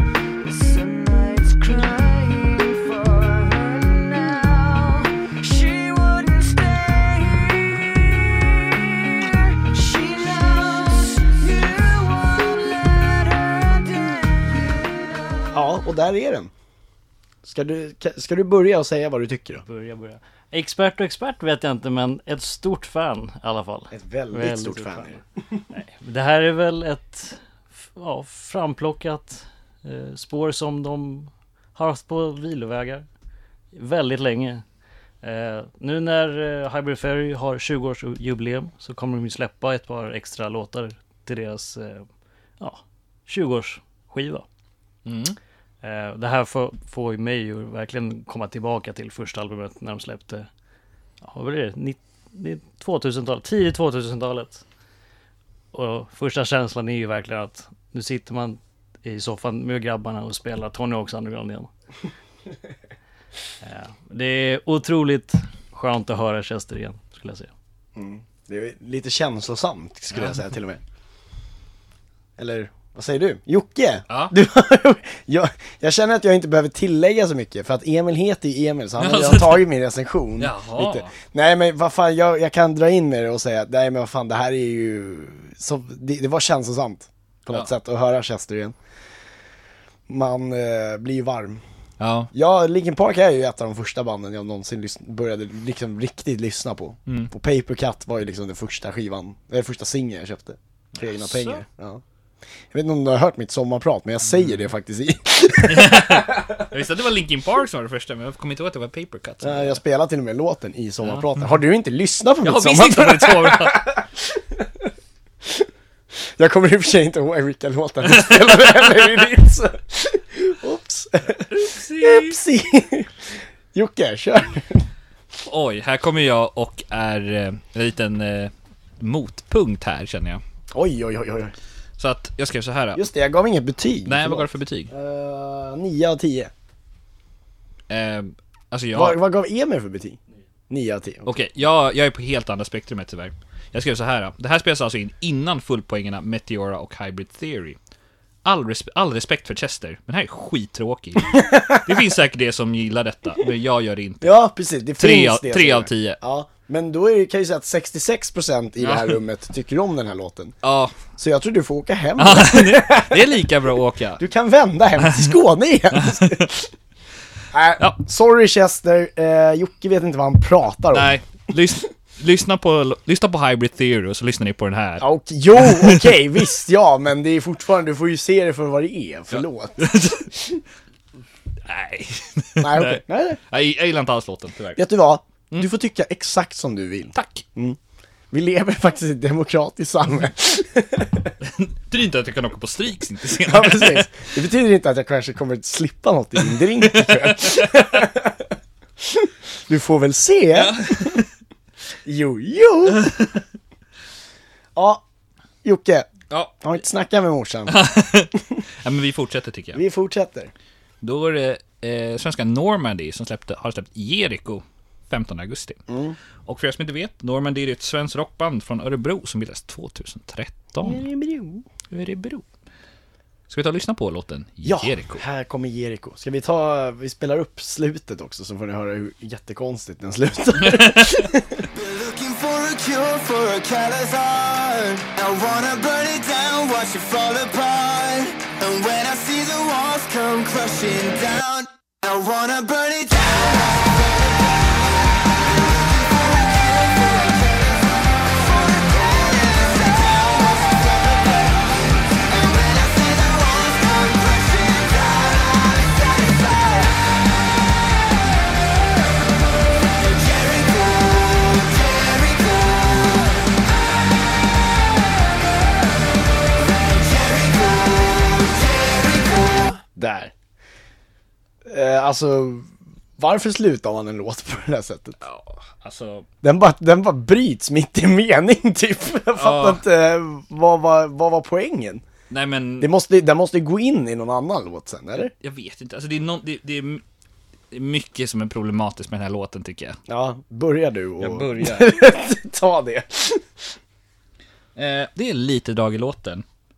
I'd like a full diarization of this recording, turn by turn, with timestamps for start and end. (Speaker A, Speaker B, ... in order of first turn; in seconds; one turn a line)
Speaker A: 0.4-15.5
Speaker B: 15.5-16.5
Speaker B: 17.4-19.6
Speaker C: 19.7-25.2
Speaker B: 23.9-25.2
Speaker C: 25.7-33.1
Speaker C: 33.7-34.6
Speaker C: 35.2-42.1
Speaker C: 42.6-44.5
Speaker D: 45.1-45.4
Speaker C: 45.8-50.5
Speaker C: 51.2-54.6
Speaker C: 55.7-61.7
Speaker C: 63.6-67.5
Speaker B: 68.0-70.8
Speaker D: 70.1-70.4
Speaker B: 72.4-88.8
Speaker D: 74.1-74.3
Speaker D: 79.0-79.7
Speaker D: 80.4-81.1
Speaker B: 90.1-91.6
Speaker D: 92.0-92.3
Speaker B: 92.3-102.0
Speaker D: 101.0-101.6
Speaker B: 102.7-106.6
Speaker D: 105.6-109.8
Speaker B: 109.4-114.9
Speaker D: 111.0-111.3
Speaker D: 112.4-113.9
Speaker B: 116.4-123.2
Speaker D: 118.1-118.5
Speaker D: 121.3-122.4
Speaker B: 123.7-124.9
Speaker D: 125.5-130.4
Speaker B: 130.7-131.6
Speaker D: 132.0-133.1
Speaker B: 132.9-136.5
Speaker D: 134.1-134.9
Speaker D: 137.9-139.2
Speaker B: 138.9-140.2
Speaker B: 140.7-141.3
Speaker D: 141.2-147.8
Speaker D: 148.4-154.3
Speaker B: 151.3-152.0
Speaker B: 154.2-160.6
Speaker D: 155.0-156.2
Speaker D: 158.8-159.2
Speaker D: 160.6-161.0
Speaker B: 161.1-163.5
Speaker D: 162.2-164.2
Speaker B: 164.2-166.7
Speaker D: 165.0-165.3
Speaker D: 165.9-166.5
Speaker B: 167.5-171.2
Speaker D: 170.9-176.1
Speaker B: 175.0-179.8
Speaker D: 179.3-180.3
Speaker B: 180.3-180.6
Speaker D: 181.7-184.8
Speaker B: 182.6-183.4
Speaker B: 184.8-187.8
Speaker D: 187.1-187.4
Speaker B: 188.3-191.3
Speaker D: 191.4-194.2
Speaker B: 193.4-201.2
Speaker D: 196.8-197.9
Speaker D: 200.5-201.3
Speaker B: 202.1-203.1
Speaker D: 203.0-203.4
Speaker B: 204.8-205.0
Speaker B: 205.6-206.1
Speaker B: 206.6-207.8
Speaker D: 207.7-209.8
Speaker B: 209.7-210.5
Speaker D: 211.0-215.8
Speaker B: 215.9-216.2
Speaker D: 216.5-221.1
Speaker B: 220.8-221.7
Speaker D: 221.9-222.4
Speaker D: 223.5-225.2
Speaker B: 224.6-231.7
Speaker D: 230.6-231.2
Speaker E: 231.7-257.1
Speaker E: 259.8-263.6
Speaker E: 266.6-269.8
Speaker B: 270.0-270.3
Speaker B: 271.6-275.2
Speaker D: 275.2-276.3
Speaker B: 276.4-282.0
Speaker D: 279.3-279.8
Speaker D: 282.3-282.9
Speaker B: 282.8-285.3
Speaker D: 285.4-287.0
Speaker D: 287.7-290.0
Speaker B: 290.1-293.6
Speaker D: 291.2-292.0
Speaker D: 294.8-296.4